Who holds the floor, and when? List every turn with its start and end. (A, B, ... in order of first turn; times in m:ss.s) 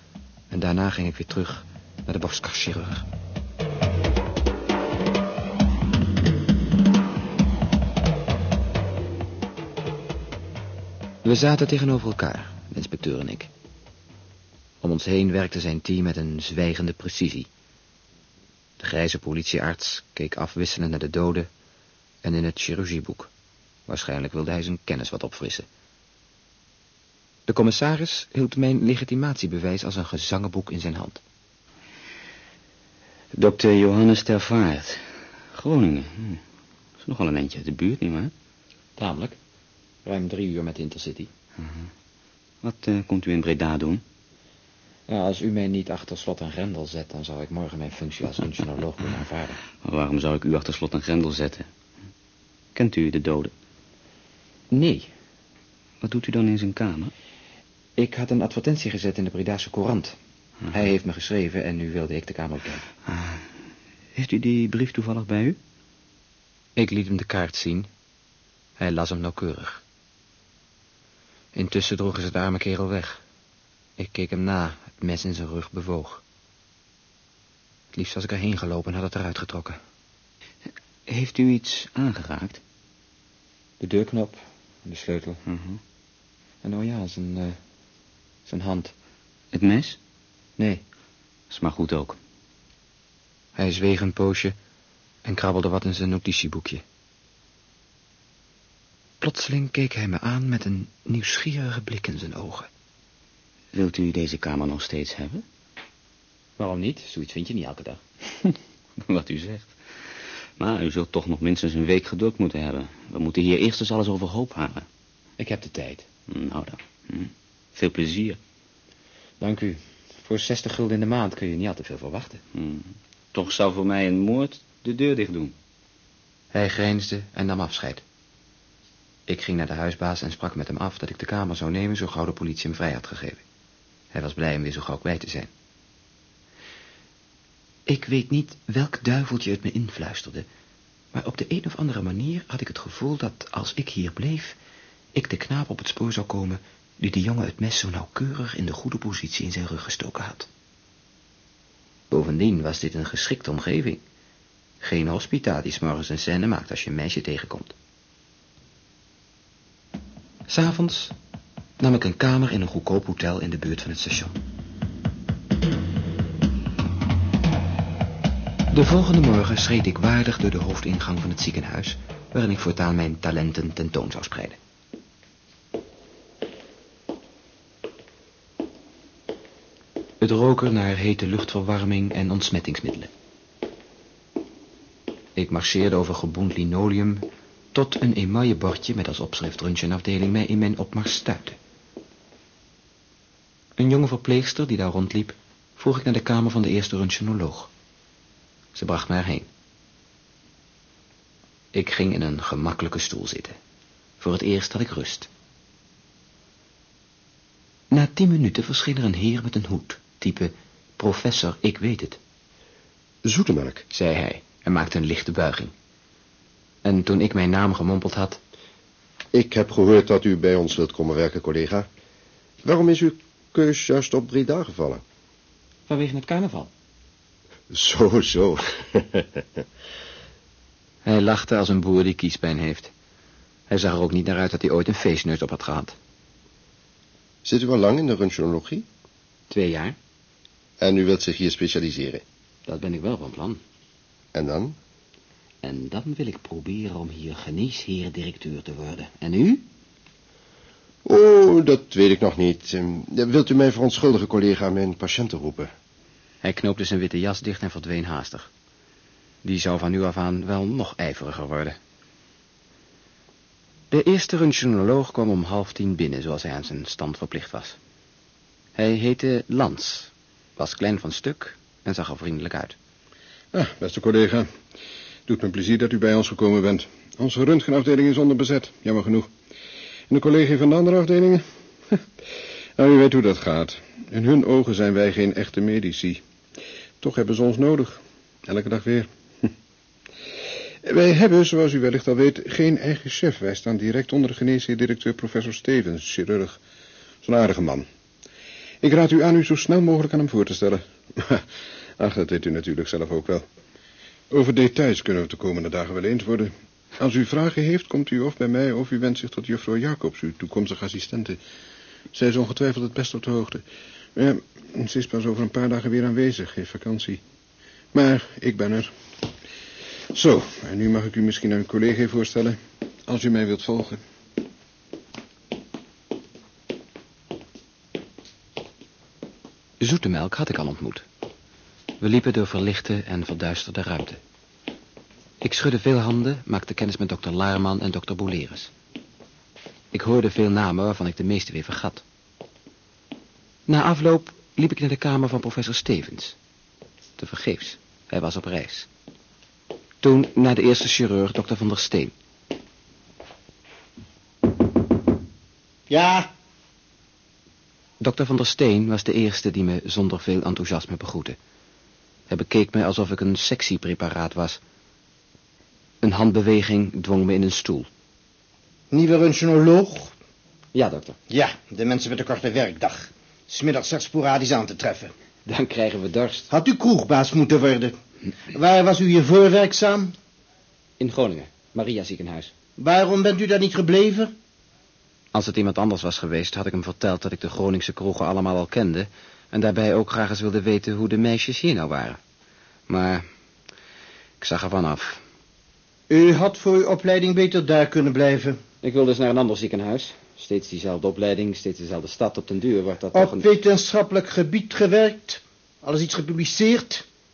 0:00.5-0:03.0 A
0:11.2-0:13.5 A
0:14.8-0:17.5 A
0:18.8-0:21.5 A
0:22.2-0:23.3 A
0:23.9-0:25.7 A
0:27.5-0:31.2 A
0:33.3-0:36.4 B
0:37.0-0:38.3 B
0:39.0-0:39.4 A
0:40.0-0:41.3 A
0:41.6-0:41.9 B
0:42.6-0:44.0 B
0:45.1-0:49.6 A
0:49.8-0:51.7 B
0:52.7-0:53.5 B
0:54.7-0:55.1 A
0:56.0-0:57.1 B
0:58.0-1:00.2 A
1:00.7-1:02.9 A
1:03.0-1:03.4 B
1:04.1-1:05.6 B
1:06.8-1:07.9 A
1:08.8-1:09.8 A
1:11.5-1:13.2 A
1:14.0-1:16.2 A
1:17.9-1:19.8 A
1:21.1-1:22.6 B
1:23.8-1:25.4 A
1:25.5-1:25.8 B
1:26.6-1:27.6 A
1:28.4-1:28.9 A
1:29.5-1:30.0 B
1:30.6-1:30.8 A
1:31.5-1:32.2 B
1:33.6-1:34.6 A
1:35.2-1:36.8 A
1:39.2-1:42.7 A
1:43.7-1:45.4 B
1:46.6-1:48.0 A
1:49.0-1:54.9 B
1:55.4-1:56.1 A
1:56.3-1:58.4 B
1:59.4-2:02.4 A
2:02.5-2:05.6 B
2:06.5-2:08.0 A
2:09.3-2:13.4 A
2:14.1-2:15.5 A
2:17.9-2:20.5 A
2:21.1-2:24.6 A
2:25.1-2:30.5 A
2:32.1-2:34.0 A
2:34.8-2:37.7 A
2:40.5-2:41.1 A
2:41.8-2:44.4 A
2:48.7-2:54.6 A
3:00.2-3:03.1 A
3:05.4-3:11.6 A
3:13.8-3:17.7 A
3:18.7-3:19.5 A
3:21.7-3:23.6 A
3:24.2-3:25.3 A
3:27.9-3:32.2 A
3:33.2-3:33.8 C
3:33.9-3:35.7 A
3:36.8-3:38.4 A
3:39.3-3:41.9 C
3:42.6-3:45.0 C
3:45.9-3:46.7 A
3:47.7-3:49.4 C
3:51.0-3:52.9 A
3:53.7-3:56.0 A
3:57.4-3:58.8 C
3:59.5-4:00.0 A
4:00.8-4:02.2 C
4:02.6-4:03.6 A
4:04.3-4:04.8 C
4:05.6-4:09.6 A
4:11.0-4:15.7 C
4:16.4-4:18.5 A
4:19.4-4:21.8 A
4:23.9-4:27.8 A
4:28.7-4:32.8 A
4:33.5-4:34.5 D
4:35.3-4:39.3 D
4:40.1-4:42.0 D
4:42.8-4:46.2 D
4:47.0-4:49.5 D
4:50.8-4:56.6 D
4:57.2-4:57.8 D
4:58.8-5:01.4 D
5:02.0-5:03.4 D
5:04.3-5:11.4 D
5:12.1-5:17.2 D
5:17.9-5:18.9 D
5:20.1-5:24.0 D
5:29.8-5:31.0 A
5:32.0-5:34.2 A
5:35.4-5:38.7 A
5:39.9-5:42.0 A
5:43.7-5:46.4 A
5:47.2-5:48.9 A
5:50.0-5:52.1 A
5:55.9-5:56.3 E
5:58.0-6:01.4 A
6:02.3-6:04.6 A
6:06.0-6:07.9 A
6:08.9-6:10.1 E
6:10.7-6:11.2 A
6:11.3-6:15.1 E
6:15.5-6:16.5 A
6:16.5-6:17.9 E
6:18.5-6:20.1 E
6:21.0-6:22.5 A
6:22.8-6:24.3 E
6:25.3-6:32.2 A
6:32.9-6:33.2 A
6:34.4-6:35.2 A
6:36.1-6:38.6 E
6:38.8-6:43.4 A
6:43.1-6:47.0 E